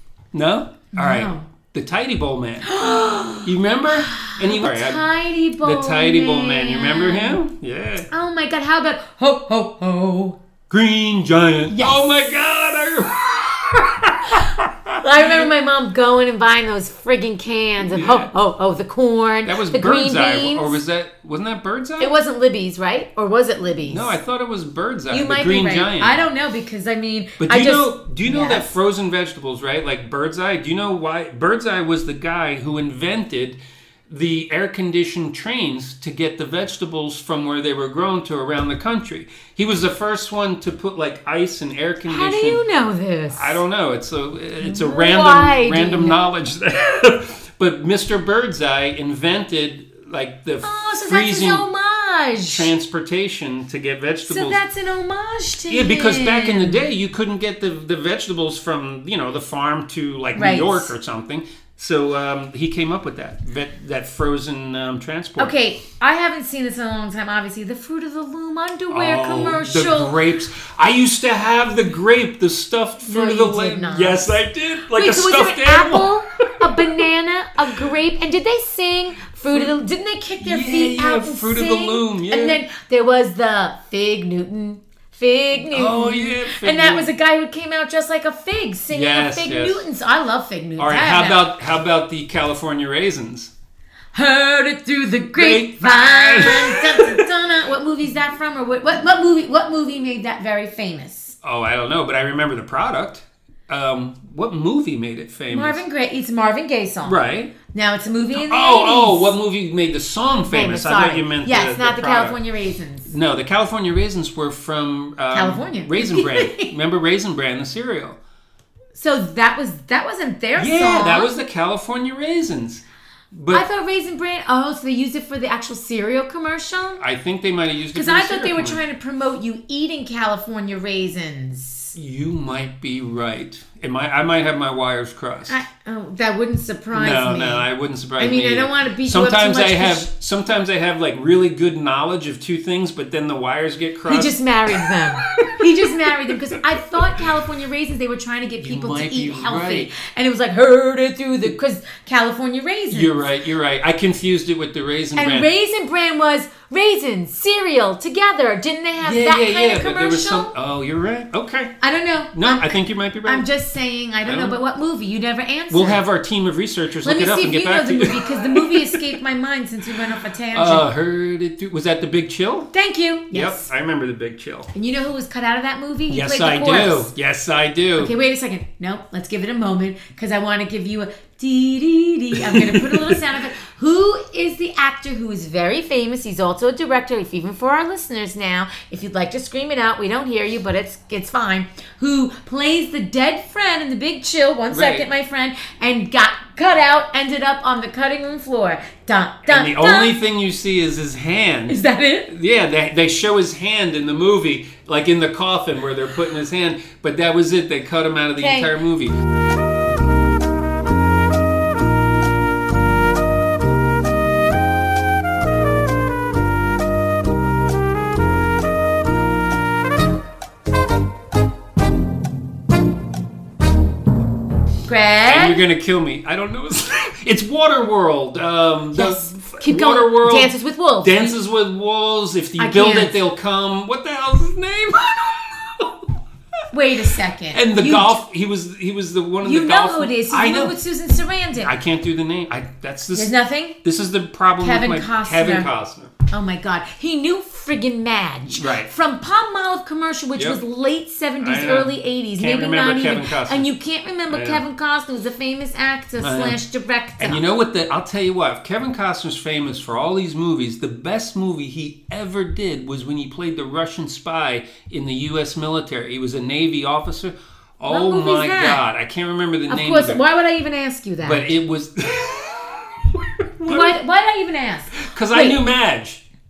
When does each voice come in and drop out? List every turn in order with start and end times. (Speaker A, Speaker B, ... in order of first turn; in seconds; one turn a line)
Speaker A: 0.3-2.8
Speaker B: 0.9-1.5
Speaker B: 2.6-7.4
Speaker A: 3.4-5.1
Speaker A: 5.6-8.1
Speaker B: 8.1-10.4
Speaker A: 10.7-15.5
Speaker B: 11.7-12.3
Speaker B: 15.0-20.8
Speaker A: 17.8-18.3
Speaker A: 19.4-22.1
Speaker B: 22.0-24.2
Speaker A: 23.8-26.2
Speaker B: 25.1-28.7
Speaker A: 27.4-42.6
Speaker B: 42.0-43.6
Speaker A: 43.3-51.6
Speaker B: 44.6-46.2
Speaker B: 50.6-52.7
Speaker A: 52.5-54.6
Speaker B: 54.2-56.8
Speaker A: 55.7-65.5
Speaker B: 60.3-60.9
Speaker B: 65.4-70.1
Speaker A: 68.9-77.0
Speaker B: 73.0-74.4
Speaker B: 74.9-91.5
Speaker A: 79.5-79.7
Speaker A: 80.4-82.6
Speaker A: 85.6-87.1
Speaker A: 88.9-89.9
Speaker A: 90.8-93.5
Speaker B: 94.1-101.4
Speaker A: 95.3-97.3
Speaker A: 101.4-105.8
Speaker B: 105.5-109.3
Speaker A: 107.0-107.5
Speaker A: 108.3-112.4
Speaker B: 110.4-113.1
Speaker A: 113.0-118.2
Speaker B: 115.3-116.7
Speaker B: 118.9-121.3
Speaker A: 120.5-123.6
Speaker B: 123.5-127.0
Speaker A: 127.0-128.8
Speaker B: 127.9-131.9
Speaker A: 131.9-135.6
Speaker B: 135.5-137.7
Speaker A: 136.9-147.3
Speaker B: 138.2-140.1
Speaker B: 144.1-153.2
Speaker A: 148.6-149.9
Speaker A: 152.9-155.5
Speaker B: 155.2-160.5
Speaker A: 159.0-161.8
Speaker B: 161.8-166.0
Speaker A: 162.3-163.5
Speaker A: 164.2-164.6
Speaker A: 165.7-169.2
Speaker B: 167.0-170.9
Speaker A: 170.0-172.7
Speaker B: 172.7-173.7
Speaker A: 173.3-174.7
Speaker B: 174.7-177.1
Speaker A: 176.1-178.1
Speaker B: 178.0-200.2
Speaker A: 182.3-183.4
Speaker A: 194.7-195.1
Speaker A: 199.4-209.2
Speaker B: 201.7-202.3
Speaker B: 208.4-208.7
Speaker B: 224.9-225.6
Speaker A: 225.2-236.1
Speaker B: 228.9-231.3
Speaker B: 232.6-233.2
Speaker B: 236.7-238.2
Speaker A: 237.5-240.7
Speaker B: 239.4-241.7
Speaker A: 241.6-243.3
Speaker B: 243.1-243.8
Speaker A: 243.8-246.1
Speaker B: 244.6-245.7
Speaker B: 246.3-257.4
Speaker A: 248.5-248.9
Speaker A: 250.3-250.6
Speaker A: 251.4-253.7
Speaker A: 254.3-254.6
Speaker A: 256.2-256.6
Speaker A: 257.2-270.2
Speaker B: 267.9-268.8
Speaker B: 269.7-271.4
Speaker A: 271.2-274.0
Speaker B: 273.6-275.6
Speaker A: 274.9-276.2